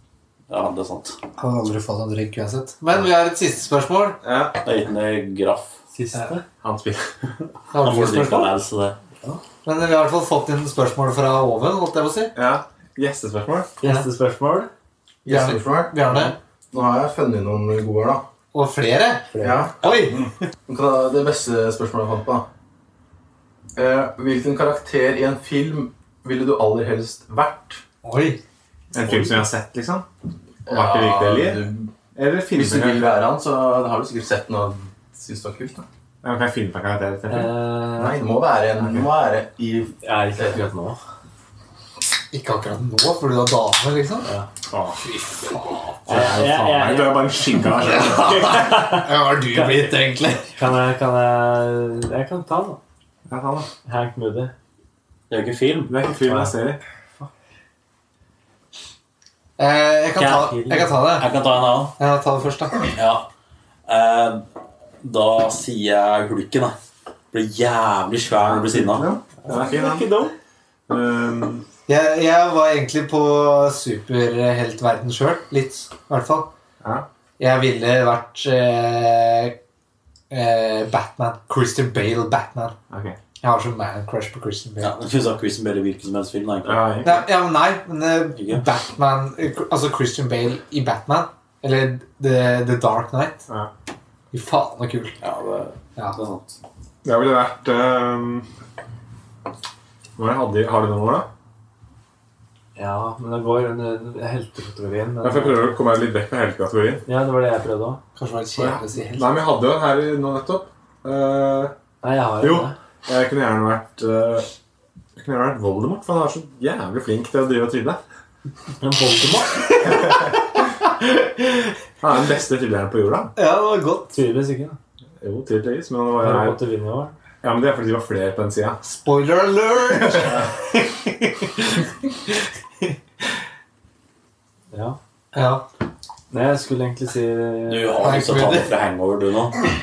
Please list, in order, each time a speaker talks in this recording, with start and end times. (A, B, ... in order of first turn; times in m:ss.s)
0:00.5-0:01.2 A
0:01.4-0:04.2 B
0:04.2-0:04.6 C
0:04.6-0:05.8 A
0:05.9-0:06.4 D
0:06.6-0:07.1 C
0:07.7-0:08.5 B
0:07.8-0:09.0 A
0:09.6-0:12.3 B
0:12.3-0:13.7 C
0:13.8-0:14.7 D
0:15.2-0:16.2 E
0:15.3-0:16.4 B
0:16.7-0:18.2 E
0:18.5-0:20.3 B
0:19.3-0:19.7 D
0:19.4-0:19.9 E
0:20.7-0:22.4 E
0:23.8-0:27.8 E
0:28.0-0:28.4 B
0:28.9-0:30.0 C
0:30.6-0:31.9 E
0:30.6-0:33.2 C
0:32.5-0:35.8 E
0:36.2-0:37.5 C
0:37.3-0:38.2 D
0:38.0-0:40.7 E
0:38.8-0:39.1 C
0:40.0-0:41.0 D
0:42.3-0:44.3 B
0:44.7-0:45.0 C
0:45.0-0:46.0 B
0:46.0-0:48.7 C
0:46.0-0:52.8 D
0:47.8-0:50.5 B
0:53.3-0:53.7 C
0:53.8-0:54.5 D
0:55.3-0:55.9 A
0:55.9-0:56.8 C
0:56.2-0:56.5 D
0:59.6-1:01.2 B
1:00.2-1:02.0 A
1:02.0-1:02.8 B
1:02.9-1:03.2 A
1:03.9-1:04.4 A
1:05.0-1:06.7 A
1:07.3-1:09.1 A
1:08.4-1:10.1 C
1:09.4-1:10.3 D
1:10.9-1:11.6 C
1:11.9-1:16.5 B
1:17.4-1:19.6 B
1:20.3-1:22.7 B
1:22.9-1:23.2 C
1:23.4-1:24.9 B
1:24.8-1:27.0 A
1:26.6-1:27.2 C
1:27.0-1:33.4 B
1:28.3-1:28.6 A
1:34.3-1:35.1 B
1:35.2-1:36.6 A
1:37.0-1:38.5 C
1:40.2-1:41.3 C
1:42.8-1:45.8 D
1:45.2-1:47.0 C
1:47.0-1:48.0 D
1:48.2-1:49.5 B
1:48.6-1:51.7 C
1:52.0-1:52.8 D
1:52.4-1:54.5 C
1:55.2-1:58.0 C
1:58.8-2:00.1 D
2:01.0-2:01.7 B
2:02.0-2:03.3 C
2:03.4-2:04.2 B
2:04.1-2:04.8 D
2:05.2-2:06.6 C
2:06.2-2:07.1 D
2:07.4-2:08.8 C
2:08.8-2:12.9 B
2:14.7-2:15.0 D
2:15.3-2:15.6 B
2:16.3-2:18.0 D
2:17.7-2:19.6 A
2:18.0-2:18.7 B